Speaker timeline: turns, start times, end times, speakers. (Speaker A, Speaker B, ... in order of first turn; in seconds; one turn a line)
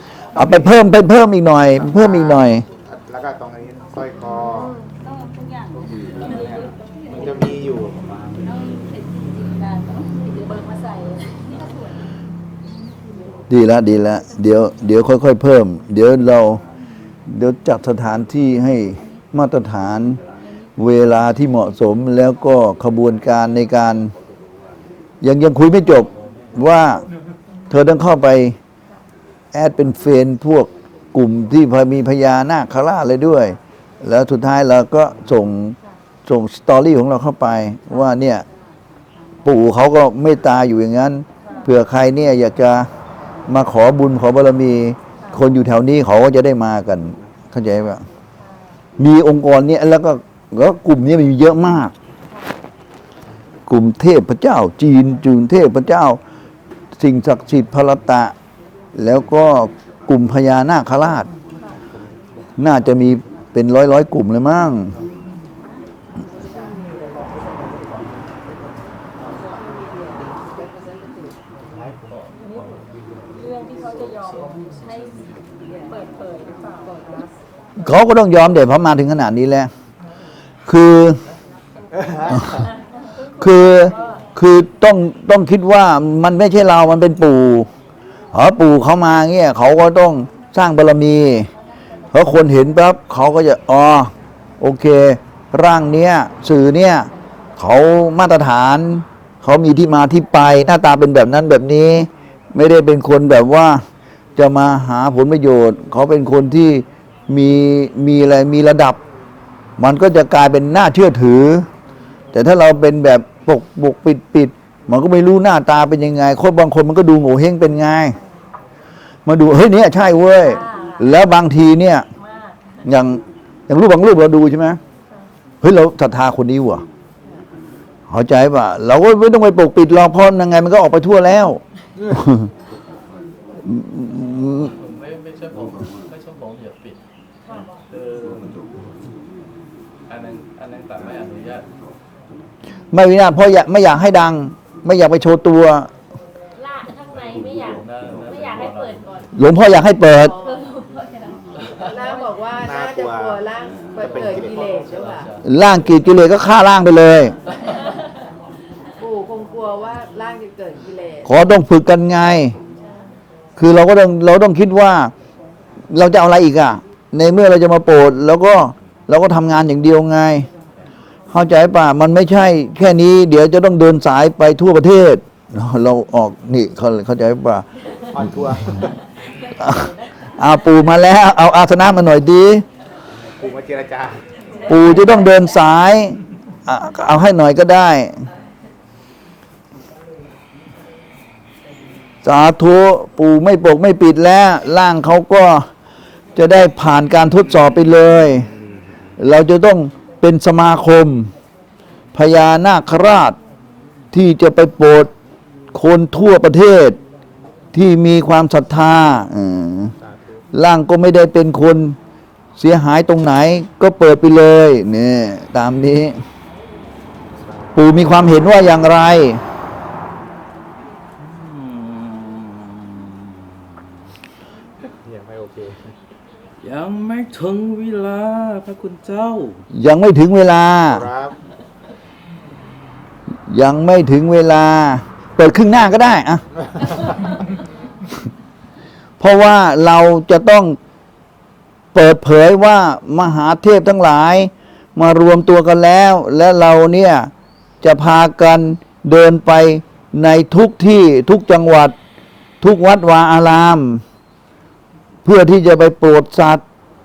Speaker A: 0.3-0.7
Speaker B: 0.3-2.6
Speaker A: 1.8-4.7
Speaker C: 4.5-7.3
Speaker A: 5.9-8.3
Speaker C: 8.4-11.9
Speaker B: 13.5-16.6
Speaker B: 17.3-20.2
Speaker B: 20.8-24.1
Speaker B: 25.2-27.0
Speaker B: 27.7-28.6
Speaker B: 29.5-38.4
Speaker B: 39.4-42.9
Speaker C: 41.4-41.7
Speaker B: 43.5-48.0
Speaker B: 49.0-51.9
Speaker B: 53.7-56.2
Speaker B: 57.0-58.3
Speaker B: 58.9-61.3
Speaker B: 62.6-64.9
Speaker D: 72.1-72.8
Speaker C: 72.4-72.7
Speaker C: 73.3-77.3
Speaker D: 74.5-75.5
Speaker B: 77.8-79.7
Speaker B: 80.7-81.2
Speaker A: 81.9-82.5
Speaker C: 82.2-84.2
Speaker B: 82.3-82.6
Speaker B: 83.4-87.7
Speaker B: 88.3-91.5
Speaker B: 92.1-103.8
Speaker B: 104.4-109.0
Speaker B: 109.8-111.7
Speaker B: 112.3-118.2
Speaker B: 119.2-122.1
Speaker C: 120.3-121.1
Speaker C: 122.1-122.6
Speaker B: 122.8-124.8
Speaker B: 125.6-126.8
Speaker B: 128.1-132.5
Speaker B: 133.6-134.7
Speaker D: 134.2-137.0
Speaker C: 137.4-137.8
Speaker D: 137.9-138.7
Speaker D: 140.1-141.7
Speaker B: 142.9-145.9
Speaker C: 146.6-152.2
Speaker D: 147.3-149.1
Speaker B: 149.3-150.3
Speaker E: 150.1-150.6
Speaker E: 151.8-155.3
Speaker A: 152.6-153.4
Speaker A: 154.0-154.6
Speaker D: 154.0-155.4
Speaker B: 155.4-157.3
Speaker C: 157.8-158.0
Speaker E: 159.0-161.3
Speaker B: 161.2-162.6
Speaker B: 163.6-165.1
Speaker B: 165.9-170.5
Speaker B: 171.3-177.6
Speaker A: 178.1-179.0
Speaker B: 179.6-182.6
Speaker C: 179.6-179.9
Speaker A: 183.4-184.2
Speaker C: 184.5-185.6
Speaker B: 184.7-188.2
Speaker B: 192.2-195.7
Speaker B: 196.3-198.5
Speaker B: 199.2-201.3
Speaker B: 202.1-203.4
Speaker B: 204.1-205.1
Speaker B: 205.7-207.0
Speaker B: 207.7-209.9
Speaker A: 210.0-210.4
Speaker B: 210.5-212.0
Speaker B: 212.6-216.2
Speaker A: 217.4-217.9
Speaker B: 217.7-219.4
Speaker D: 221.2-223.2
Speaker A: 225.0-225.9
Speaker D: 226.6-229.6
Speaker B: 229.7-231.1
Speaker A: 230.9-231.3
Speaker B: 233.5-236.4
Speaker B: 239.2-240.8
Speaker B: 241.9-247.3
Speaker B: 247.8-251.9
Speaker B: 252.6-254.0
Speaker B: 255.2-256.6